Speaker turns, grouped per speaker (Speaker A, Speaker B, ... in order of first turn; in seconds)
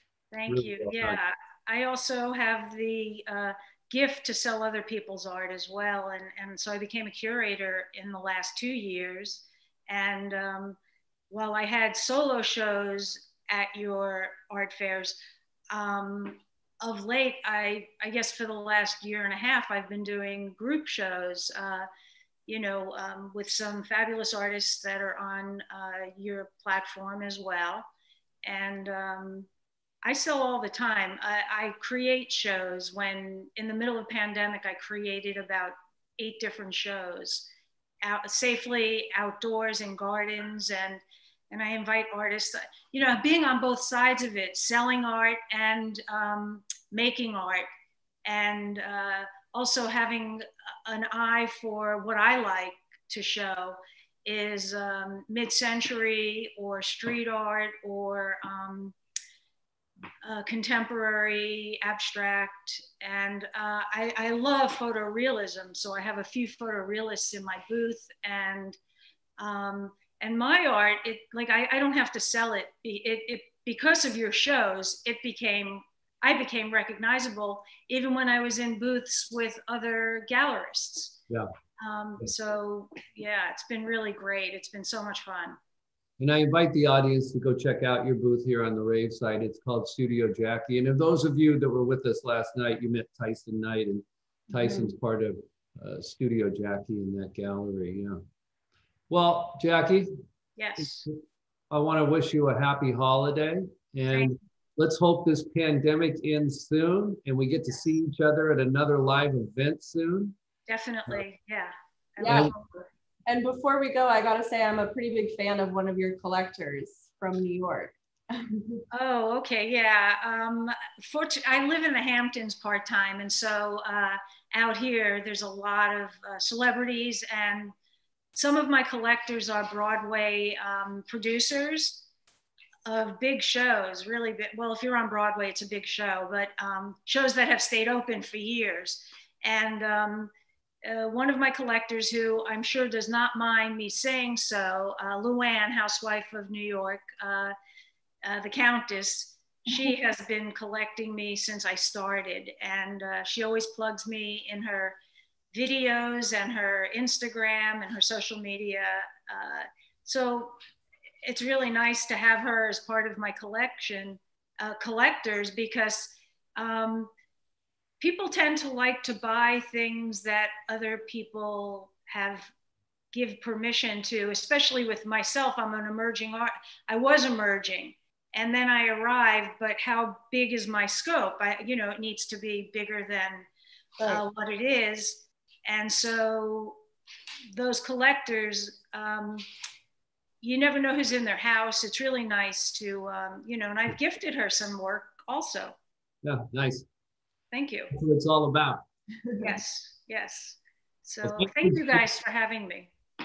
Speaker A: 0.3-10.8, 11.3-15.2, 15.7-21.9, 22.5-27.9, 28.4-29.5, 30.0-37.5, 38.0-47.7, 48.2-59.0, 60.2-68.8, 69.4-81.2, 81.8-85.6, 100.6-101.1, 104.1-104.4, 107.6-107.9, 110.7-112.6, 118.9-127.7, 128.3-132.1, 132.9-140.3, 140.8-147.5, 148.2-155.0, 155.5-160.6, 161.2-167.1, 168.0-172.5, 173.1-183.5, 184.0-186.8, 187.5-189.4, 190.4-195.8, 197.5-197.9, 199.4-202.9
Speaker B: 0.5-1.2, 86.2-98.2, 99.1-100.1, 100.8-101.1, 101.7-110.3, 112.2-112.5, 196.2-196.9, 197.9-198.8, 201.2-202.0
Speaker C: 94.6-94.9, 112.2-118.8